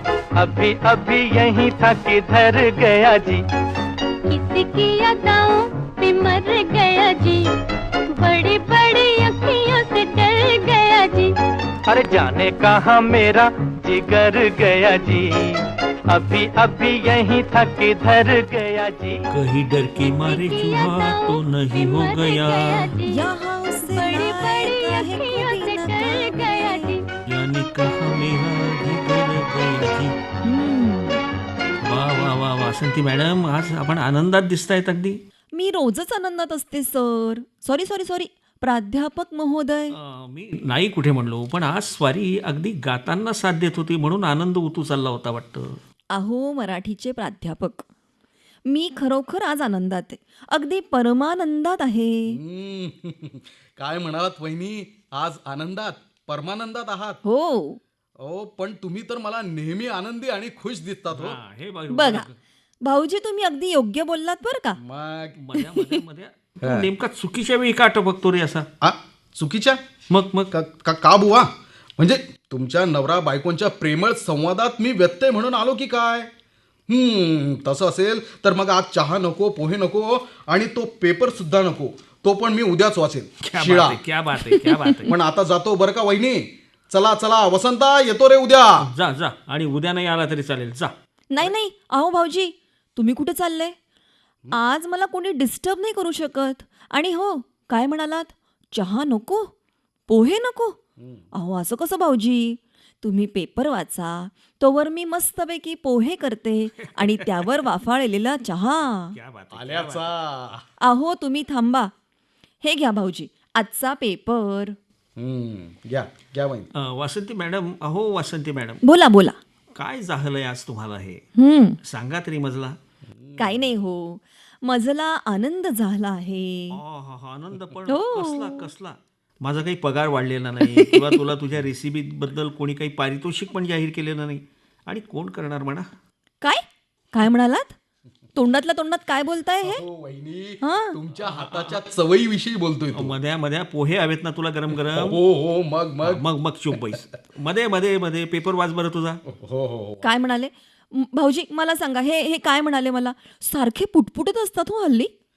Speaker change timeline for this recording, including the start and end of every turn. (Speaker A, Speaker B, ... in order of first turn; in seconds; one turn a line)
Speaker A: 0.4-3.4
Speaker B: 4.3-7.5
Speaker B: 8.1-11.3
Speaker A: 11.9-15.6
Speaker A: 16.1-19.2
Speaker C: 19.3-22.9
Speaker B: 20.0-27.1
Speaker D: 23.1-27.0
Speaker C: 27.3-30.1
Speaker D: 30.4-31.2
Speaker C: 31.8-35.2
Speaker D: 35.5-40.0
Speaker C: 40.0-45.8
Speaker D: 46.1-47.9
Speaker D: 48.7-52.4
Speaker E: 52.3-57.2
Speaker D: 57.2-57.8
Speaker E: 58.2-61.4
Speaker C: 61.1-62.4
Speaker D: 61.9-62.3
Speaker D: 62.8-64.8
Speaker E: 64.8-65.4
Speaker C: 65.4-68.7
Speaker D: 65.6-66.0
Speaker E: 66.6-66.9
Speaker E: 68.8-69.8
Speaker C: 70.1-70.5
Speaker E: 70.5-76.3
Speaker E: 76.9-84.0
Speaker C: 83.4-85.2
Speaker D: 84.4-85.1
Speaker E: 85.1-88.9
Speaker C: 88.8-90.9
Speaker D: 91.3-93.7
Speaker D: 94.5-99.5
Speaker D: 100.1-100.8
Speaker E: 101.0-101.2
Speaker D: 101.3-109.1
Speaker C: 106.8-107.5
Speaker C: 109.1-110.1
Speaker E: 109.5-110.7
Speaker D: 110.8-111.9
Speaker D: 112.6-114.8
Speaker E: 115.2-116.7
Speaker C: 116.8-118.8
Speaker D: 118.8-119.4
Speaker C: 119.8-121.2
Speaker D: 121.4-121.8
Speaker C: 121.8-122.8
Speaker E: 123.1-123.7
Speaker D: 123.4-126.8
Speaker C: 126.7-135.9
Speaker D: 127.9-128.7
Speaker D: 130.6-131.2
Speaker D: 136.4-137.8
Speaker D: 138.3-139.8
Speaker E: 139.6-143.2
Speaker D: 140.6-141.0
Speaker C: 141.2-141.8
Speaker C: 142.9-145.2
Speaker E: 144.9-146.2
Speaker C: 146.0-149.2
Speaker E: 149.3-150.1
Speaker D: 150.0-155.1